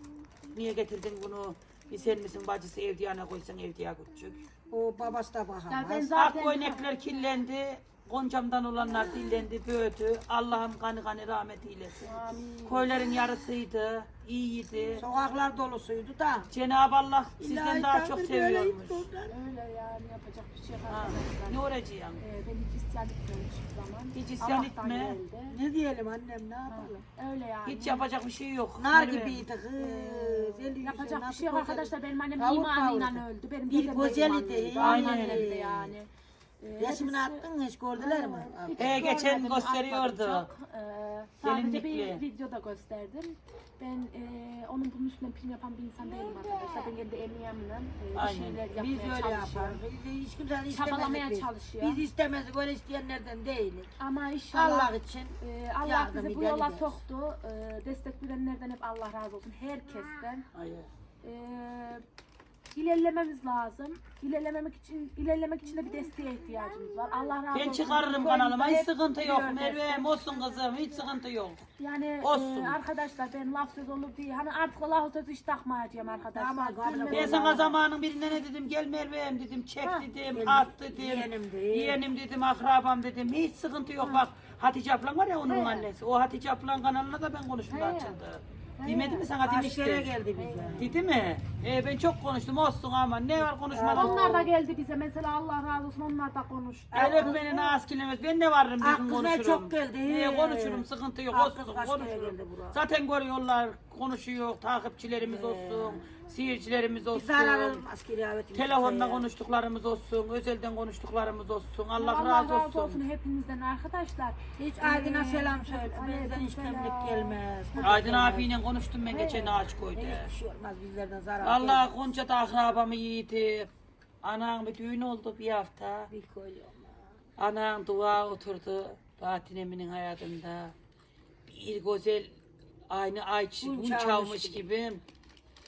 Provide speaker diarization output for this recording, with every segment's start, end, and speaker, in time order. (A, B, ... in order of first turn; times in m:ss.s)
0:00.5-0:04.5 A
0:04.7-0:06.1 B
0:05.7-0:07.0 C
0:06.2-0:15.0 A
0:12.0-0:13.0 C
0:15.0-0:16.5 B
0:16.5-0:19.0 A
0:17.4-0:19.3 B
0:19.3-0:21.6 C
0:20.9-0:22.2 A
0:22.2-0:25.6 C
0:24.1-0:25.2 A
0:25.5-0:27.0 B
0:26.7-0:28.0 C
0:27.6-0:29.4 A
0:28.8-0:36.0 B
0:29.8-0:36.1 C
0:34.8-0:35.5 A
0:36.6-0:49.8 C
0:36.8-0:39.1 B
0:38.8-0:40.5 A
0:41.4-0:42.2 A
0:46.2-0:46.9 B
0:48.1-0:48.6 A
0:48.7-0:54.0 B
0:50.7-0:52.0 C
0:54.0-1:00.5 C
0:54.5-0:57.0 B
1:00.5-1:00.9 A
1:01.2-1:02.0 C
1:02.7-1:10.2 C
1:07.5-1:11.6 A
1:11.8-1:17.7 C
1:12.2-1:12.8 A
1:16.3-1:17.8 B
1:17.1-1:30.1 A
1:19.8-1:20.1 C
1:20.3-1:22.0 B
1:25.5-1:25.9 C
1:27.7-1:28.2 C
1:28.8-1:29.3 C
1:29.4-1:31.0 B
1:30.4-1:31.0 C
1:30.8-1:34.5 A
1:33.7-1:34.5 B
1:34.0-1:37.7 C
1:36.9-1:37.6 B
1:37.0-1:47.8 A
1:38.8-1:42.8 B
1:45.2-1:46.1 B
1:47.1-1:49.3 B
1:48.5-1:53.0 A
1:52.0-1:58.1 C
1:54.6-1:58.5 B
1:57.8-2:00.3 A
1:59.1-1:59.6 C
1:59.9-2:01.9 B
2:01.4-2:03.7 A
2:04.2-2:06.1 A
2:06.1-2:07.2 B
2:07.4-2:10.7 A
2:11.5-2:12.3 A
2:12.9-2:15.0 A
2:13.6-2:14.6 B